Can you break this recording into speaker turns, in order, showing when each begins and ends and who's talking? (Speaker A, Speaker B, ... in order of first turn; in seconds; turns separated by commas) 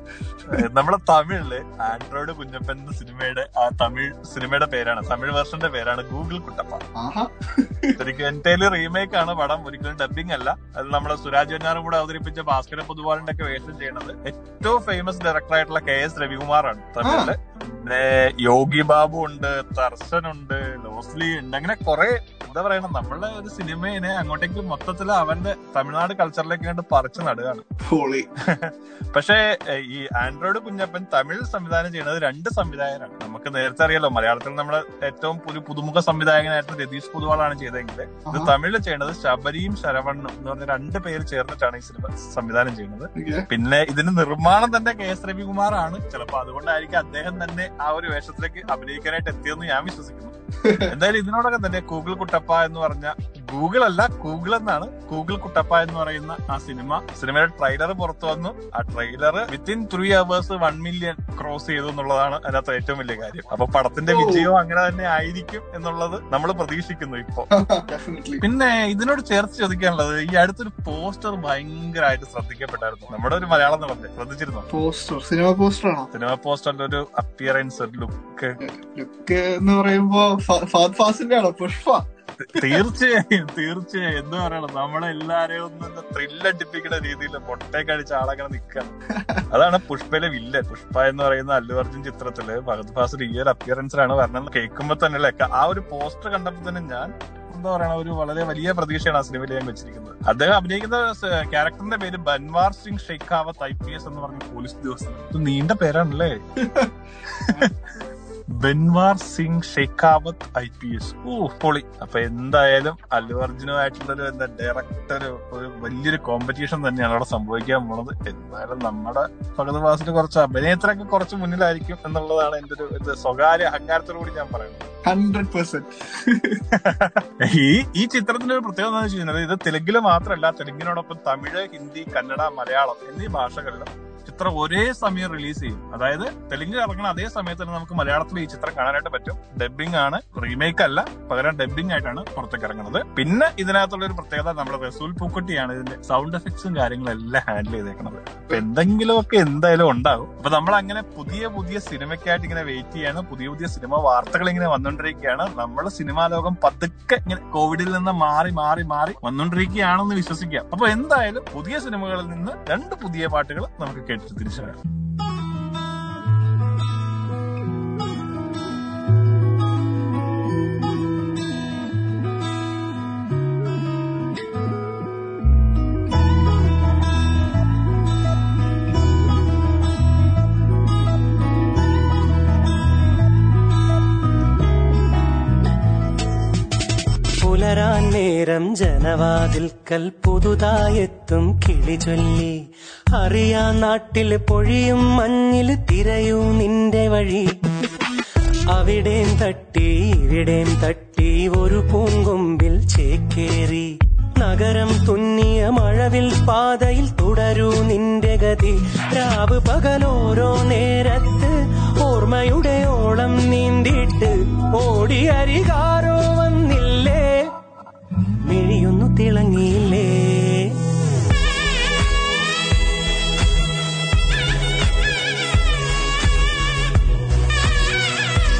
Speaker A: 0.5-6.8, Speaker B: 7.0-8.0, Speaker A: 8.0-27.6, Speaker B: 17.0-17.3, Speaker B: 27.8-28.3, Speaker A: 28.5-50.4, Speaker B: 38.3-38.5, Speaker B: 43.2-43.5, Speaker B: 50.6-50.9, Speaker A: 50.9-67.5, Speaker B: 64.1-64.5, Speaker B: 67.5-68.5, Speaker A: 68.4-74.7, Speaker B: 74.7-76.1, Speaker A: 76.1-78.6, Speaker B: 78.6-82.8, Speaker A: 82.4-88.9, Speaker B: 89.1-89.4, Speaker A: 89.5-106.4, Speaker B: 106.6-106.9, Speaker A: 108.6-124.9, Speaker B: 125.0-126.6, Speaker A: 126.8-164.8, Speaker C: 187.4-192.6, Speaker C: 193.2-197.5, Speaker C: 198.7-217.4, Speaker C: 218.5-220.7